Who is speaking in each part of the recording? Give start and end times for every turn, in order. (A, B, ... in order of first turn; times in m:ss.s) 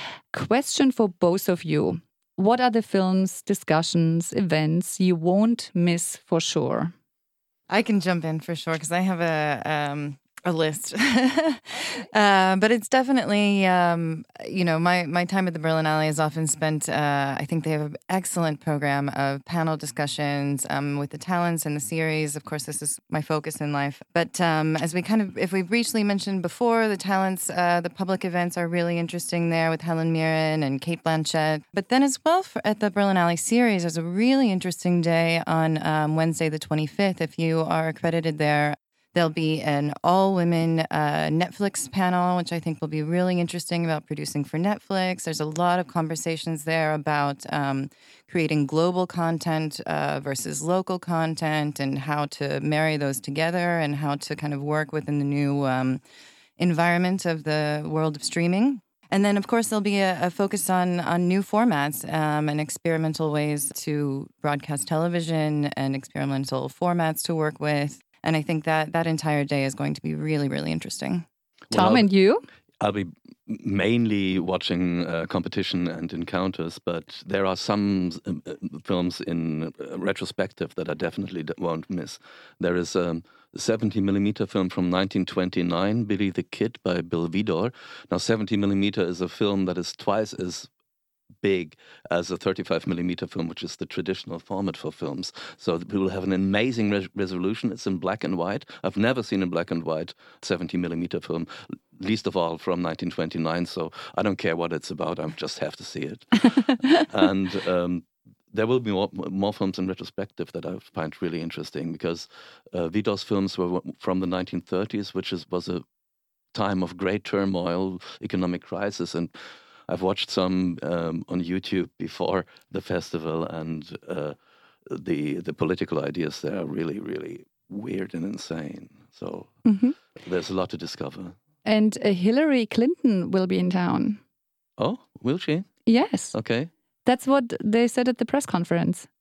0:00.3-0:06.9 A
0:07.7-0:56.0 B
0:56.6-1:11.2 B
1:11.7-1:12.1 C
1:11.7-1:12.5 A
1:12.8-1:30.7 C
1:31.4-1:55.8 C
1:56.5-1:59.4 C
1:59.9-2:04.4 C
2:04.9-2:09.6 C
2:09.7-2:10.0 A
2:10.2-2:11.4 C
2:11.7-2:14.2 A
2:14.8-2:15.7 C
2:15.9-2:16.3 A
2:16.3-2:16.7 C
2:17.0-2:19.1 A